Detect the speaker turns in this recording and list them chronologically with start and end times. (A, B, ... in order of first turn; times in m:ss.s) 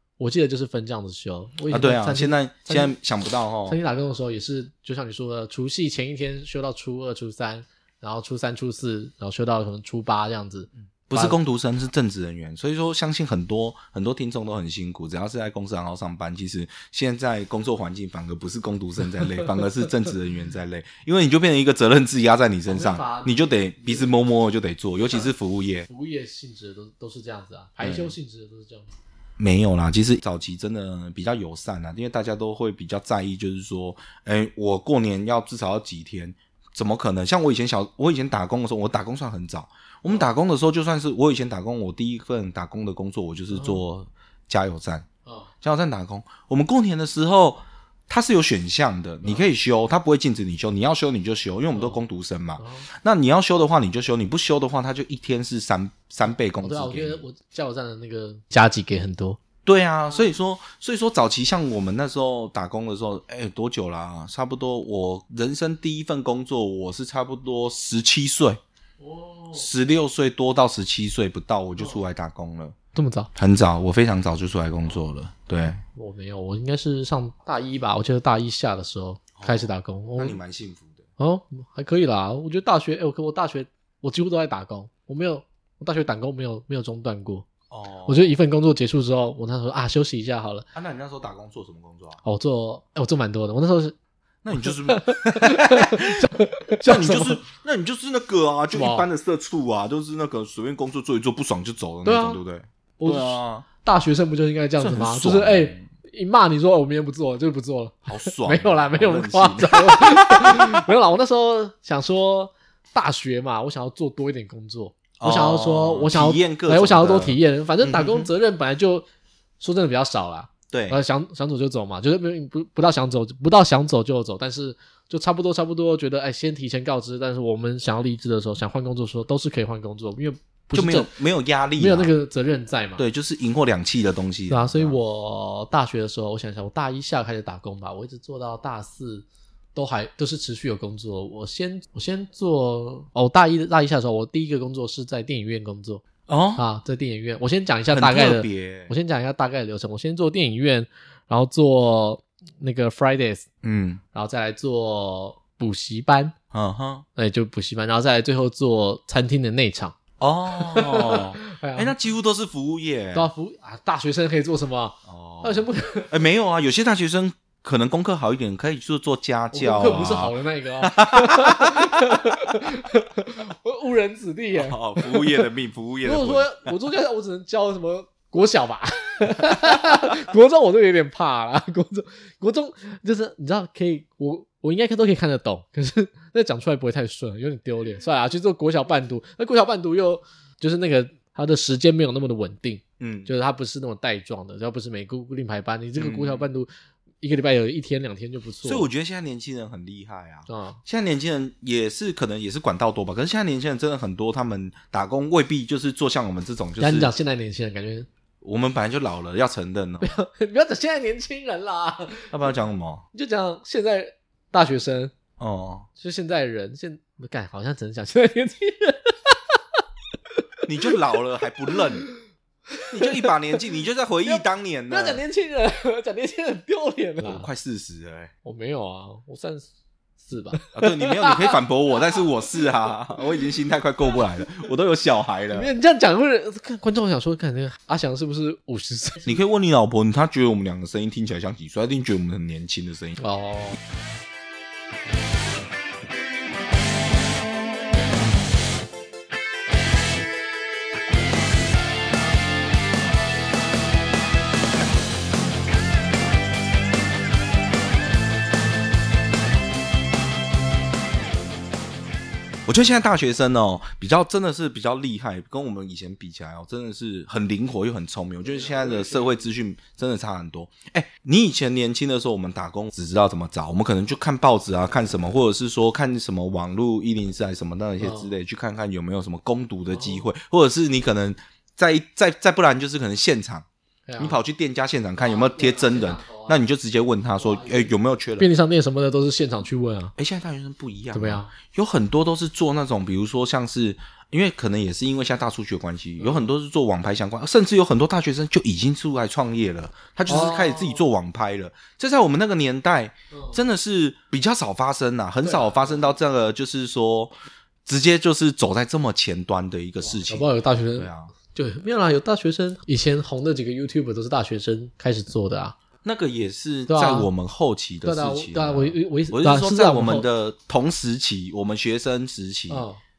0:00.2-0:03.0 A
0:01.7-0:03.8 B
0:03.7-0:11.4 A
0:11.1-0:25.9 B
0:22.7-0:24.1 A
0:25.9-0:28.9 A
0:27.8-0:28.2 B
0:29.4-0:45.1 B
0:43.5-0:43.8 A
0:45.6-0:57.2 B
0:52.6-0:52.9 A
0:56.6-0:59.4 A
0:59.6-1:08.6 B
1:09.0-1:09.7 A
1:09.5-1:12.8 B
1:13.0-1:13.3 A
1:13.4-1:15.8 B
1:16.0-1:20.4 A
1:19.4-1:21.0 B
1:21.2-1:27.5 A
1:27.7-1:28.4 B
1:28.1-1:30.7 A
1:30.7-1:32.2 B
1:32.2-1:34.0 A
1:34.4-1:43.7 B
1:34.6-1:37.4 A
1:38.7-1:39.1 A
1:42.0-1:42.4 A
1:43.0-1:59.1 A
1:44.8-1:45.9 B
1:48.1-1:50.8 B
1:55.2-1:58.3 B
1:59.6-2:11.1 A
2:00.7-2:01.0 B
2:10.7-2:12.1 B
2:11.8-2:13.0 A
2:13.0-2:15.0 B
2:14.5-2:26.0 A
2:26.3-2:26.6 B
2:26.6-2:33.5 A
2:27.9-2:28.9 B
2:33.6-2:34.0 B
2:34.1-2:36.3 A
2:36.5-2:37.1 B
2:37.2-2:40.0 A
2:40.2-2:43.3 B
2:40.5-2:42.0 A
2:43.1-2:46.1 A
2:45.1-2:52.4 B
2:49.5-2:55.5 A
2:54.5-2:56.7 B
2:56.0-3:16.7 A
3:13.0-3:13.3 B
3:16.0-3:16.5 B
3:17.2-3:18.9 A
3:18.6-3:27.1 B
3:20.5-3:20.8 A
3:26.8-3:28.1 A
3:28.4-3:30.2 B
3:30.0-3:32.3 A
3:32.3-3:33.0 B
3:33.1-3:35.1 A
3:35.4-3:35.9 B
3:36.0-3:41.0 A
3:40.6-3:42.1 B
3:41.7-3:42.1 A
3:42.7-3:43.6 A
3:42.9-3:45.2 B
3:44.2-3:47.5 A
3:47.2-3:48.3 B
3:48.4-3:49.7 A
3:50.2-3:51.6 A
3:50.7-3:55.7 B
3:55.5-3:59.4 A
3:59.2-4:03.2 B
4:03.2-4:03.8 A
4:22.7-4:43.7 B
4:28.4-4:29.5 A
4:38.0-4:38.3 A
4:39.9-4:40.3 A
4:44.1-4:44.4 A
4:44.2-4:48.5 B
4:45.2-4:46.6 A
4:47.4-4:50.1 A
4:50.2-5:07.3 B
4:51.1-4:51.5 A
4:56.2-4:56.5 A
5:00.3-5:01.0 A
5:03.3-5:03.6 A
5:05.4-5:06.0 A
5:07.9-5:11.3 B
5:10.0-5:15.8 A
5:16.0-5:22.9 B
5:16.9-5:17.3 A
5:18.0-5:20.3 A
5:22.7-5:23.0 A